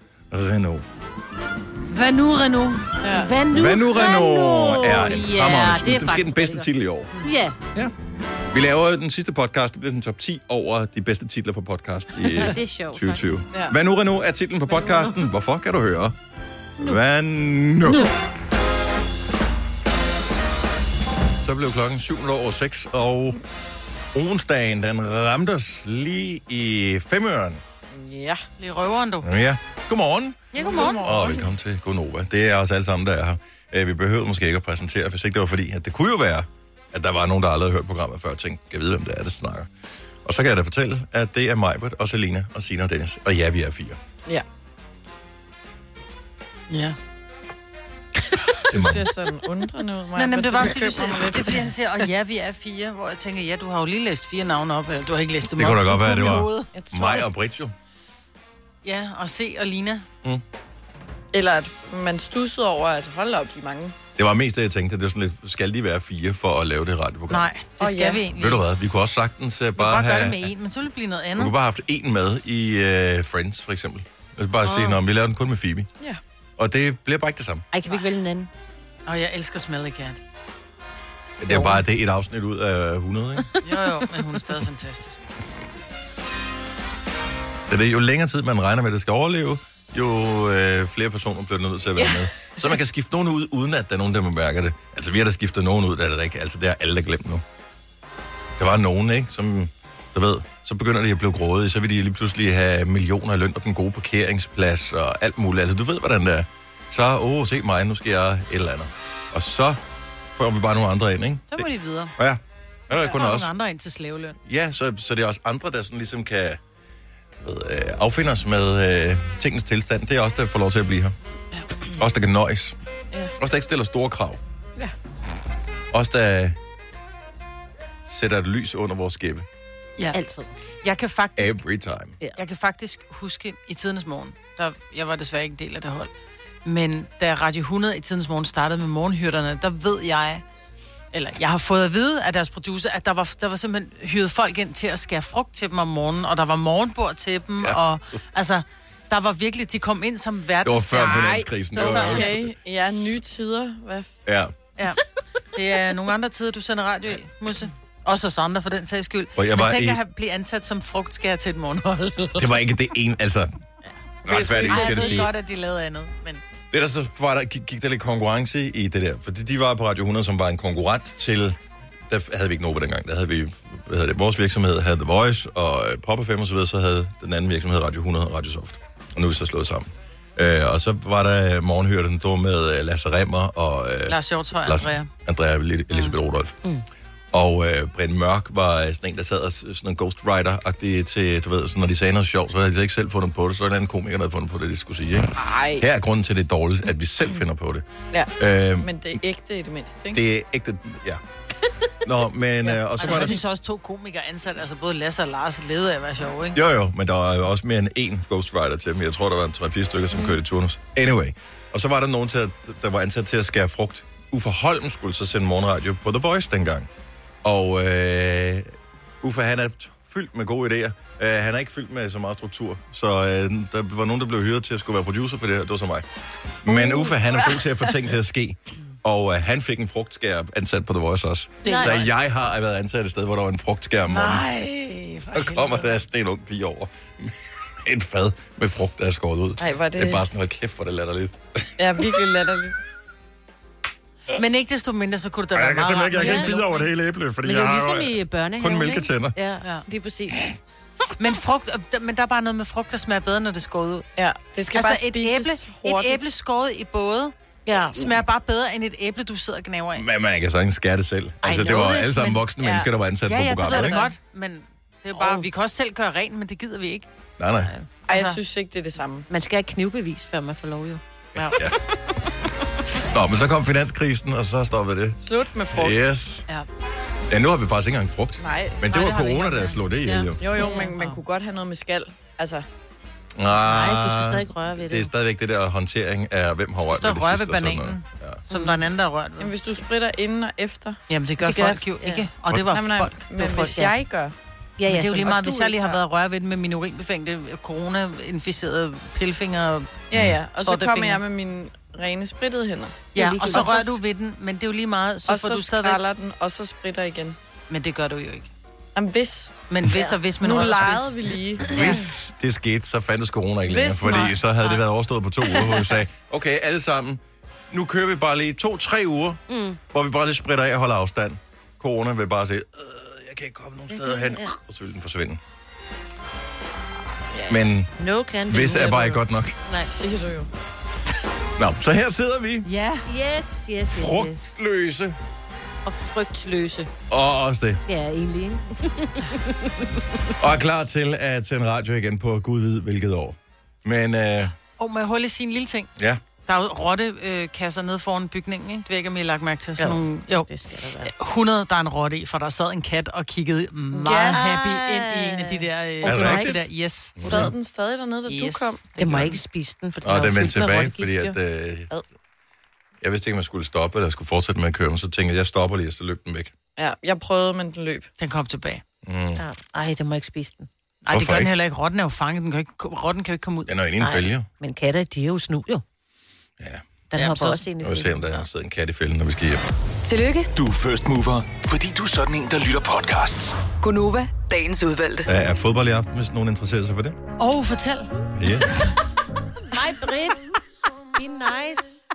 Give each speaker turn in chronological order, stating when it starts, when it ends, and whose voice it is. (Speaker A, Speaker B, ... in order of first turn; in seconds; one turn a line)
Speaker A: 0.3-0.8
Speaker B: 1.9-3.0
Speaker C: 3.0-3.3
Speaker D: 3.1-6.7
Speaker A: 3.5-7.1
Speaker D: 7.2-7.5
Speaker A: 8.5-16.1
Speaker D: 12.3-13.2
Speaker A: 16.8-18.1
Speaker A: 21.4-23.4
Speaker A: 24.1-27.6
Speaker C: 27.9-28.4
Speaker B: 28.6-29.3
Speaker A: 29.2-39.7
Speaker B: 30.5-31.4
Speaker A: 40.2-44.0
Speaker B: 46.7-47.0
Speaker C: 48.7-51.7
Speaker A: 48.7-49.1
Speaker B: 50.1-56.7
Speaker A: 55.4-57.7
Speaker C: 56.7-57.2
Speaker B: 58.8-60.0
Speaker C: 61.3-64.0
Speaker A: 64.2-67.5
Speaker B: 67.3-68.6
Speaker C: 67.8-68.2
Speaker A: 68.3-70.5
Speaker B: 69.8-71.5
Speaker A: 71.4-75.9
Speaker D: 74.7-75.0
Speaker A: 76.6-77.7
Speaker D: 77.7-78.5
Speaker B: 79.0-80.2
Speaker A: 81.4-83.5
Speaker B: 83.6-85.2
Speaker A: 87.7-97.4
Speaker A: 98.6-109.8
Speaker A: 110.3-113.5
Speaker B: 111.5-112.1
Speaker B: 112.9-114.4
Speaker A: 114.4-116.6
Speaker A: 117.4-121.1
Speaker A: 122.0-122.8
Speaker A: 123.4-124.4
Speaker A: 125.9-126.6
Speaker A: 128.0-129.5
Speaker D: 130.1-130.6
Speaker B: 130.8-131.6
Speaker A: 131.4-132.2
Speaker B: 132.3-136.1
Speaker B: 136.6-140.4
Speaker B: 141.1-152.3
Speaker A: 150.6-153.2
Speaker C: 151.0-154.1
Speaker A: 154.2-154.5
Speaker B: 155.5-162.6
Speaker A: 159.3-160.0
Speaker A: 162.4-163.6
Speaker A: 164.2-165.3
Speaker C: 164.3-165.2
Speaker B: 164.6-166.4
Speaker A: 166.7-186.6
Speaker B: 184.1-185.1
Speaker A: 187.3-197.8
Speaker C: 195.3-195.8
Speaker C: 198.1-200.2
Speaker A: 198.4-198.9
Speaker A: 200.1-201.2
Speaker A: 202.0-203.4
Speaker B: 203.0-206.6
Speaker D: 203.0-203.3
Speaker A: 206.5-216.9
Speaker A: 217.4-226.1
Speaker A: 226.6-234.4
Speaker D: 231.6-232.0
Speaker B: 231.7-232.1
Speaker B: 234.1-235.9
Speaker A: 235.3-241.7
Speaker C: 239.6-240.2
Speaker C: 241.8-242.8
Speaker B: 244.3-246.9
Speaker E: 245.5-248.2
Speaker D: 246.1-246.6
Speaker A: 246.7-248.1
Speaker D: 247.4-250.5
Speaker A: 248.6-249.4
Speaker B: 251.2-254.1
Speaker C: 254.2-256.3
Speaker B: 254.7-257.3
Speaker D: 257.6-258.1
Speaker B: 257.9-260.1
Speaker A: 259.9-264.0
Speaker D: 261.4-262.4
Speaker C: 262.6-264.1
Speaker B: 263.5-267.1
Speaker C: 265.1-265.4
Speaker A: 267.4-267.7
Speaker C: 268.1-269.3
Speaker B: 268.1-268.4
Speaker D: 269.3-271.0
Speaker A: 271.5-271.8
Speaker A: 273.1-275.2
Speaker C: 275.2-276.0
Speaker A: 275.7-276.4
Speaker A: 277.3-280.4
Speaker C: 278.4-278.8
Speaker B: 278.9-279.8
Speaker C: 280.4-282.6
Speaker D: 280.5-280.9
Speaker B: 280.7-281.2
Speaker A: 283.4-288.4
Speaker D: 283.6-285.1
Speaker B: 286.9-289.5
Speaker D: 288.5-288.8
Speaker C: 289.4-291.0
Speaker B: 291.1-293.8
Speaker D: 291.4-292.3
Speaker C: 292.7-294.3
Speaker D: 293.4-293.9
Speaker D: 294.8-295.9
Speaker B: 294.9-300.0
Speaker C: 300.1-303.8
Speaker B: 300.6-301.2
Speaker B: 303.1-306.0
Speaker D: 303.1-304.0
Speaker C: 305.3-307.4
Speaker B: 307.7-308.5
Speaker C: 308.9-309.5
Speaker B: 309.7-311.3
Speaker C: 310.4-311.8
Speaker A: 311.7-325.4
Speaker C: 313.7-314.3
Speaker D: 319.5-319.8
Speaker D: 323.9-324.5
Speaker A: 327.5-327.9
Speaker D: 328.0-329.9
Speaker A: 328.5-329.6
Speaker C: 329.8-330.5
Speaker A: 331.6-332.7
Speaker B: 332.7-333.0
Speaker D: 333.1-334.4
Speaker A: 333.9-335.2
Speaker D: 335.8-336.9
Speaker A: 337.1-337.8
Speaker D: 337.9-340.0
Speaker A: 340.4-344.5
Speaker B: 344.8-345.9
Speaker A: 346.0-346.2
Speaker B: 346.4-350.5
Speaker D: 349.8-351.1
Speaker B: 351.0-357.5
Speaker D: 353.9-356.6
Speaker A: 356.0-357.5
Speaker C: 357.2-358.8
Speaker B: 358.3-359.4
Speaker D: 359.0-361.4
Speaker A: 360.0-361.9
Speaker A: 363.0-366.5
Speaker C: 366.8-368.1
Speaker B: 368.2-368.8
Speaker A: 369.0-369.4
Speaker D: 369.4-370.7
Speaker B: 371.0-373.7
Speaker A: 371.1-371.5
Speaker A: 373.6-374.5
Speaker D: 374.0-375.8
Speaker A: 376.6-376.9
Speaker D: 377.1-378.3
Speaker B: 377.1-377.6
Speaker A: 377.8-379.6
Speaker F: 380.0-380.5
Speaker E: 380.5-383.6
Speaker F: 383.8-385.3
Speaker A: 385.2-387.2
Speaker B: 387.4-388.2
Speaker A: 388.3-388.8
Speaker D: 389.7-390.5
Speaker D: 391.1-392.0